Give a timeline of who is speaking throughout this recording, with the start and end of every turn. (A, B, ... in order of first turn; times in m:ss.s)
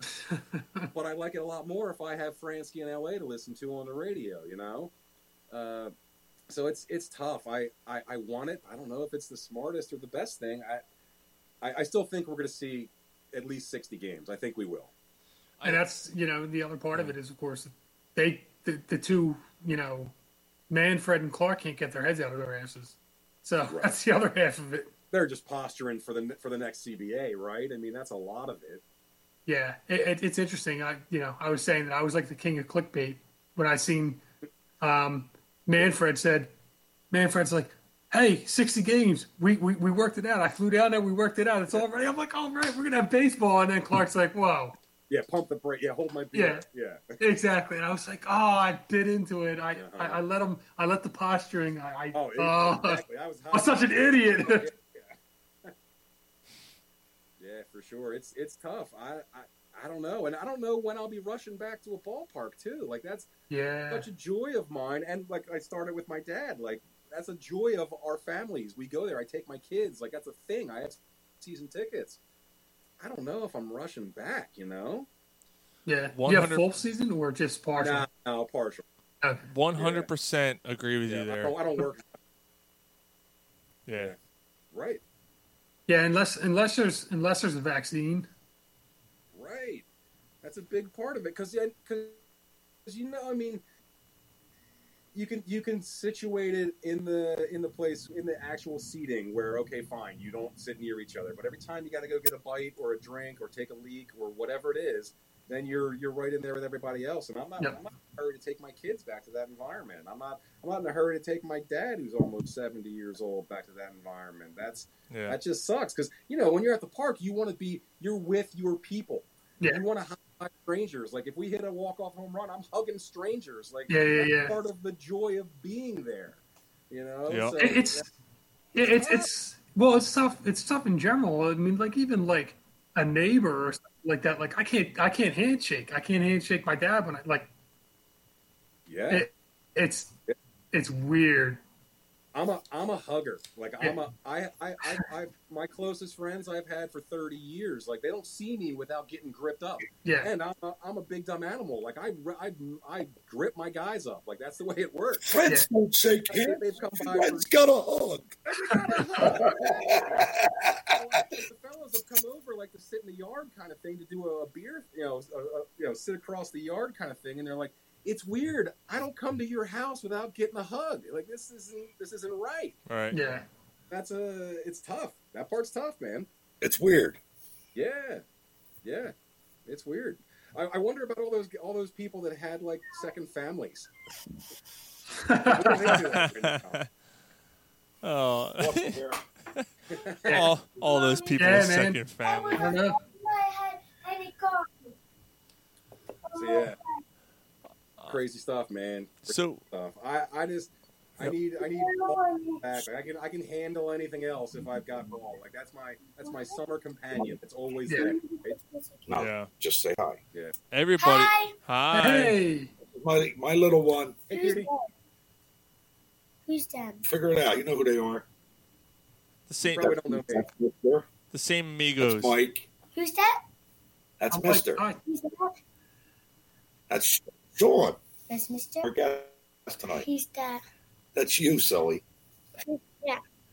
0:00.2-0:00.9 A
0:00.9-0:04.9 B
0:05.5-0:05.9 B
0:06.5-0:10.8 B
0:11.6-0:14.9 B
0:15.6-0:20.1 A
0:20.7-0:24.9 A
0:23.7-0:23.9 B
0:25.1-0:28.8 B
0:29.5-0:34.2 A
0:34.8-0:36.5 A
0:37.1-0:44.8 A
0:45.1-0:47.2 B
0:46.3-0:46.6 A
0:47.2-0:54.7 A
0:49.8-0:50.2 B
0:52.1-0:55.7 B
0:57.4-1:03.3 B
1:03.5-1:04.1 A
1:03.9-1:12.2 B
1:13.0-1:15.1 B
1:15.9-1:18.1 A
1:16.1-1:16.6 C
1:17.8-1:18.8 B
1:19.5-1:21.6 C
1:19.8-1:20.1 B
1:21.1-1:22.1 B
1:23.9-1:24.1 C
1:24.7-1:25.0 B
1:25.9-1:28.3 A
1:29.3-1:29.9 B
1:30.4-1:32.2 B
1:32.9-1:33.6 B
1:35.1-2:08.1 B
1:55.1-1:55.4 C
2:03.9-2:04.6 A
2:07.3-2:07.6 C
2:07.6-2:08.1 A
2:08.8-2:17.5 A
2:08.8-2:09.3 B
2:18.9-2:19.3 B
2:19.1-2:20.1 A
2:20.7-2:21.6 A
2:22.3-2:35.3 B
2:30.0-2:30.3 A
2:35.2-2:38.4 D
2:36.3-2:37.5 B
2:38.5-2:40.3 B
2:39.2-2:40.5 D
2:40.9-2:52.8 B
2:52.9-2:53.2 C
2:53.1-2:53.4 A
2:53.9-2:56.3 B
2:56.6-2:57.2 D
2:57.8-2:58.2 B
2:58.8-2:59.1 B
2:59.7-3:03.9 B
3:05.2-3:06.0 A
3:05.4-3:06.8 B
3:06.0-3:06.9 C
3:08.0-3:09.0 C
3:08.6-3:09.2 D
3:09.9-3:10.3 B
3:10.3-3:12.7 C
3:10.7-3:15.0 E
3:11.4-3:12.0 A
3:12.6-3:13.0 A
3:16.3-3:17.0 E
3:16.4-3:16.8 B
3:18.1-3:28.6 B
3:19.3-3:19.6 C
3:21.6-3:22.8 E
3:26.0-3:26.6 E
3:27.9-3:28.1 A
3:27.9-3:29.1 E
3:29.1-3:30.2 D
3:29.2-3:29.5 C
3:30.7-3:32.4 C
3:31.0-3:31.6 E
3:31.9-3:32.7 A
3:32.9-3:34.2 D
3:34.3-3:34.9 E
3:34.3-3:34.7 B
3:36.5-3:37.0 E
3:37.0-3:38.2 D
3:39.5-3:40.0 C
3:39.7-3:40.5 B
3:39.8-3:41.1 D
3:41.3-3:42.4 C
3:42.0-3:42.7 D
3:43.0-3:43.4 E
3:44.2-3:44.8 D
3:44.3-3:45.0 A
3:45.0-3:45.5 E
3:46.9-3:48.0 D
3:48.3-3:48.9 E
3:48.8-3:50.1 D
3:50.0-3:50.6 E
3:51.2-3:52.0 D
3:52.6-3:53.2 E